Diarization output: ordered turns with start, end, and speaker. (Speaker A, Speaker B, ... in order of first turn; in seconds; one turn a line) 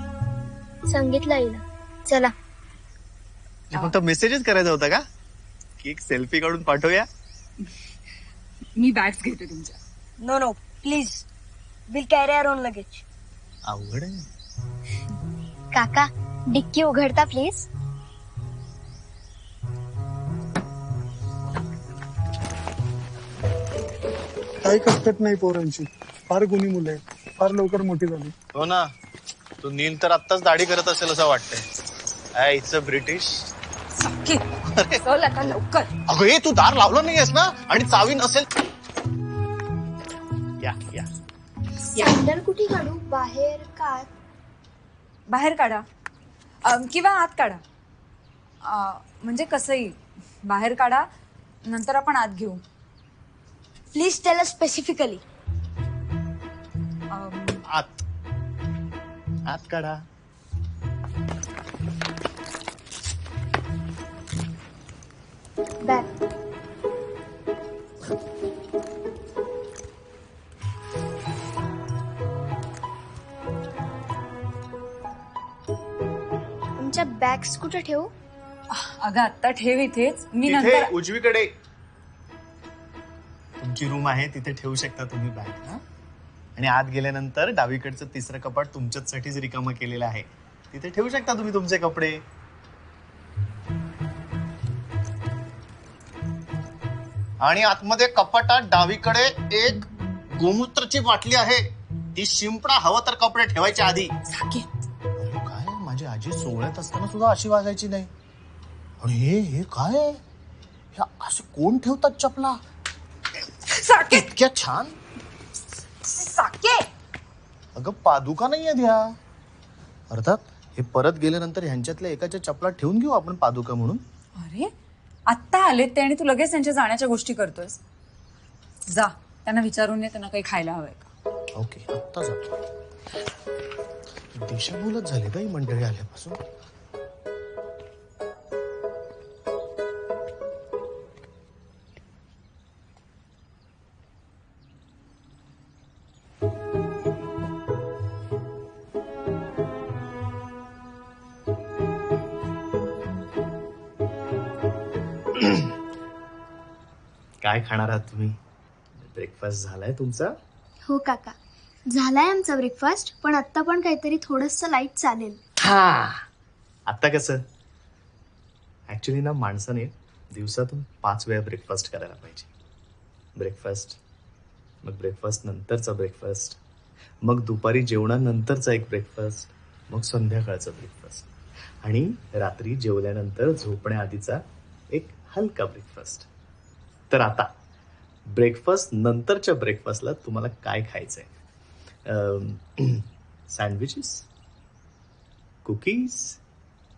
Speaker A: 0.9-2.3
Speaker B: 3.7-5.0
Speaker B: 5.8-7.1
Speaker C: 8.8-9.8
Speaker D: 10.2-11.3
Speaker D: 11.9-13.0
Speaker B: 13.7-14.2
Speaker A: 15.7-17.7
Speaker E: 24.6-28.3
Speaker B: 28.5-28.9
Speaker B: 29.6-31.6
Speaker B: 32.4-33.5
Speaker C: 34.0-34.4
Speaker B: 34.7-35.0
Speaker C: 35.0-35.9
Speaker B: 36.1-38.5
Speaker B: 40.6-41.1
Speaker A: 41.9-44.1
Speaker C: 45.3-45.8
Speaker C: 46.6-47.6
Speaker C: 48.6-51.0
Speaker C: 51.7-52.6
Speaker D: 54.0-55.2
Speaker A: 54.1-55.1
Speaker C: 57.1-57.6
Speaker B: 57.7-58.0
Speaker B: 59.5-60.0
Speaker A: 65.8-66.1
Speaker A: 76.8-78.1
Speaker C: 78.7-80.9
Speaker B: 80.4-81.5
Speaker B: 83.6-85.8
Speaker B: 86.5-92.2
Speaker B: 97.4-104.1
Speaker C: 104.2-104.7
Speaker B: 105.2-108.1
Speaker B: 109.0-110.2
Speaker B: 110.9-112.6
Speaker C: 113.7-114.2
Speaker B: 114.1-115.0
Speaker C: 116.0-116.9
Speaker B: 117.8-119.1
Speaker B: 120.1-124.0
Speaker C: 124.4-124.7
Speaker C: 125.3-127.8
Speaker C: 128.9-131.1
Speaker B: 131.5-132.6
Speaker B: 134.3-136.4
Speaker B: 155.3-155.6
Speaker B: 157.4-158.4
Speaker B: 159.0-160.3
Speaker A: 160.9-161.3
Speaker A: 161.9-165.4
Speaker B: 165.6-166.2
Speaker B: 166.9-167.4
Speaker B: 168.9-172.5
Speaker B: 173.4-174.0
Speaker B: 174.8-176.6
Speaker B: 177.2-181.3
Speaker B: 181.8-186.3
Speaker B: 187.1-187.5
Speaker B: 188.3-191.3
Speaker B: 192.1-194.3
Speaker B: 195.6-196.4